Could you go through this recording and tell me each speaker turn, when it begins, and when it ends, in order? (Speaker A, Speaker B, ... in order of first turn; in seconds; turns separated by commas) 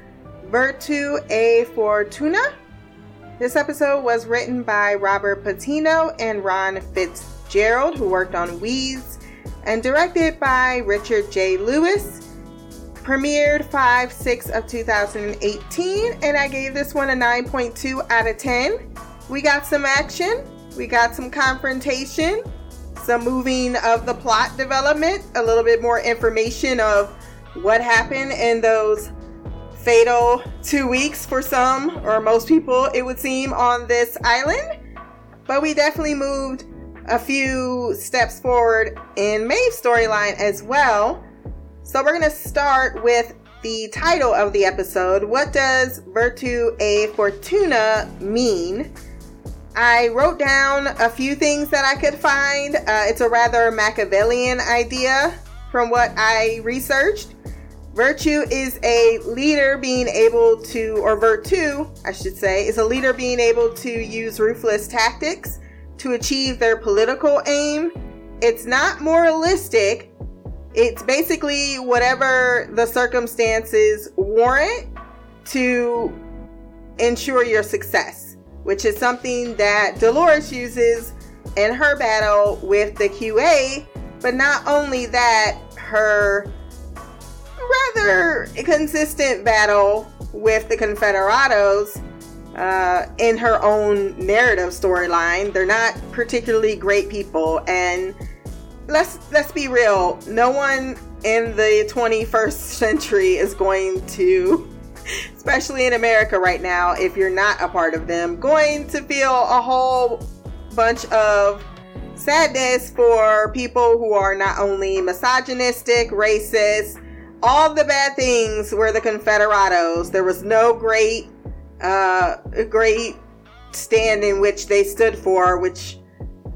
Speaker A: 0.4-2.5, Speaker A: 3.4-12.2, Speaker A: 13.0-18.8, Speaker A: 19.3-22.4, Speaker A: 22.9-29.1, Speaker A: 29.8-34.6, Speaker A: 35.5-41.2, Speaker A: 41.8-48.9, Speaker A: 49.7-57.3, Speaker A: 57.9-70.1, Speaker A: 70.7-74.9, Speaker A: 75.4-76.2, Speaker A: 77.0-86.5, Speaker A: 87.6-92.0, Speaker A: 92.5-98.2, Speaker A: 98.9-104.7, Speaker A: 105.3-111.6, Speaker A: 112.2-123.2, Speaker A: 123.7-126.0